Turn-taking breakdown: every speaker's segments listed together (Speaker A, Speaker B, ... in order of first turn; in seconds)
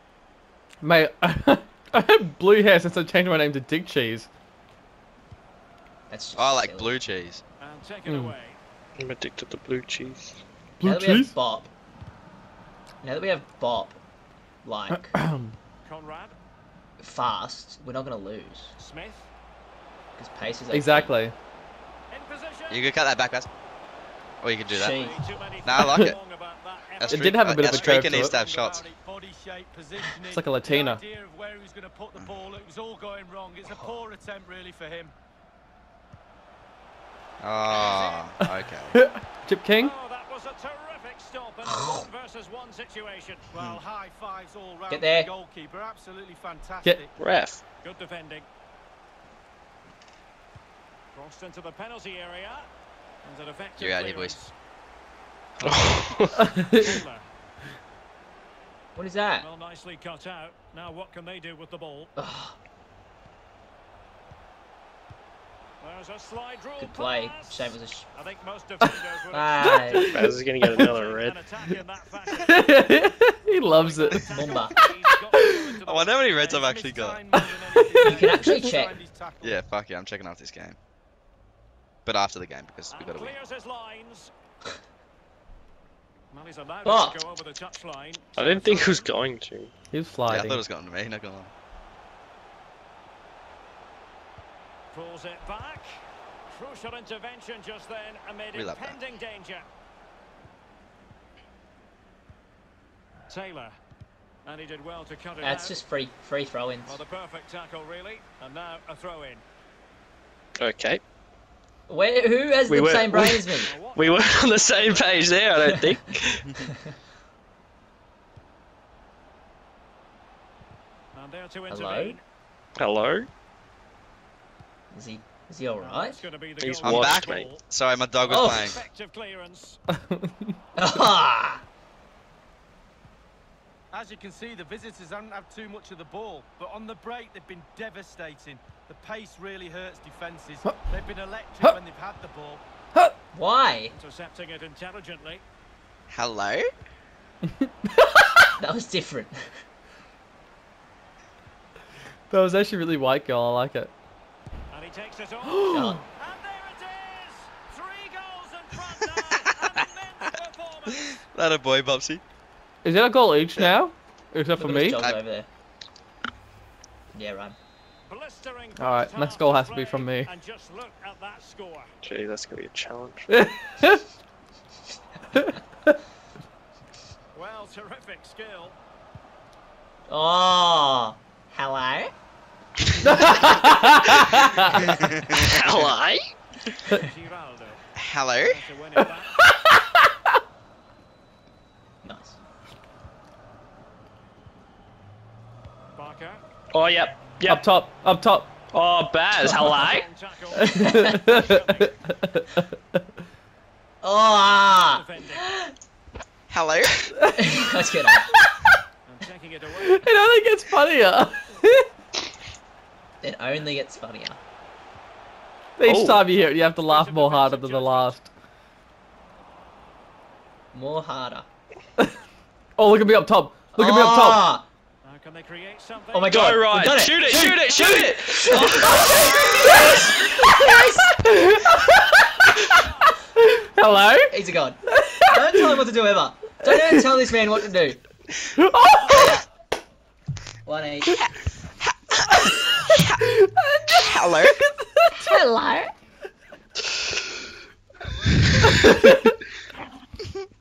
Speaker A: 0.8-4.3, 8.1-8.3, 10.8-11.3, 14.9-15.5, 20.7-21.3, 27.1-28.4, 30.3-31.0, 38.9-39.9, 56.4-56.9, 69.6-70.8, 72.3-74.4, 75.3-75.7, 77.4-78.1, 89.9-90.6, 130.0-130.5, 152.3-153.9, 155.4-156.0, 162.8-165.0, 168.8-170.3, 173.3-174.0, 183.0-184.9, 197.5-198.5, 200.6-202.6, 209.8-211.9, 215.8-218.3, 222.8-224.4, 231.2-232.3, 233.3-234.3, 234.9-235.7, 236.6-237.1, 238.6-239.4, 243.2-244.5
Speaker B: 6.1-7.0, 10.8-11.7, 13.0-14.0, 14.6-15.2, 17.0-18.8, 20.2-21.2, 24.7-25.2, 41.7-42.1, 44.9-45.3, 59.0-59.5, 62.2-62.6, 66.8-68.1, 69.3-70.1, 74.2-74.8, 78.0-79.0, 86.8-87.2, 105.4-107.0, 111.9-113.7, 121.7-122.2, 124.9-126.2, 128.3-128.8, 130.8-131.6, 143.3-143.9, 148.6-149.5, 155.7-156.1, 164.6-165.5, 167.1-167.6, 180.1-182.1, 183.4-184.4, 192.0-192.4, 204.0-205.7, 207.3-208.3, 213.2-214.4, 220.7-221.5, 223.8-224.7, 226.1-231.1, 234.3-238.0, 239.1-239.4, 240.7-241.2, 245.2-245.9
Speaker C: 6.4-7.4, 22.7-23.5, 24.4-25.0, 25.6-26.2, 27.0-28.8, 37.4-39.0, 43.6-43.8, 53.8-54.4, 75.9-77.2, 79.4-80.8, 82.1-83.4, 90.3-91.5, 98.5-99.0, 126.8-128.8, 146.1-146.7, 161.3-162.2, 164.9-165.2, 184.8-185.6, 188.0-188.6, 206.5-207.0, 244.0-244.6
Speaker D: 7.6-8.6, 15.8-16.4, 18.8-19.3, 22.1-22.9, 24.8-28.1, 37.7-38.3, 39.8-43.5, 47.8-48.5, 51.1-52.7, 53.2-54.5, 56.6-57.2, 59.4-62.1, 65.8-69.7, 70.8-72.7, 73.6-76.3, 82.9-84.3, 86.3-89.1, 94.9-99.7, 103.3-103.7, 104.5-105.8, 106.9-109.4, 113.6-115.6, 121.2-122.2, 125.8-127.6, 128.2-129.8, 143.9-145.4, 154.7-161.3, 168.1-171.9, 177.3-178.8, 186.9-187.8, 188.4-189.4, 196.0-196.4, 199.4-202.0, 204.9-205.5, 209.1-210.1, 216.4-218.2, 225.0-226.6, 227.3-228.1
Speaker E: 9.0-10.4, 47.2-47.6, 55.6-56.5, 70.1-71.4, 88.4-89.7, 110.6-111.0, 112.7-116.5, 122.8-123.3, 126.6-127.5, 172.0-173.3, 185.3-186.2, 196.7-197.7, 198.7-200.1, 215.9-216.3, 226.3-229.3
Speaker F: 28.1-35.1, 43.5-47.2, 76.4-79.7, 133.9-142.6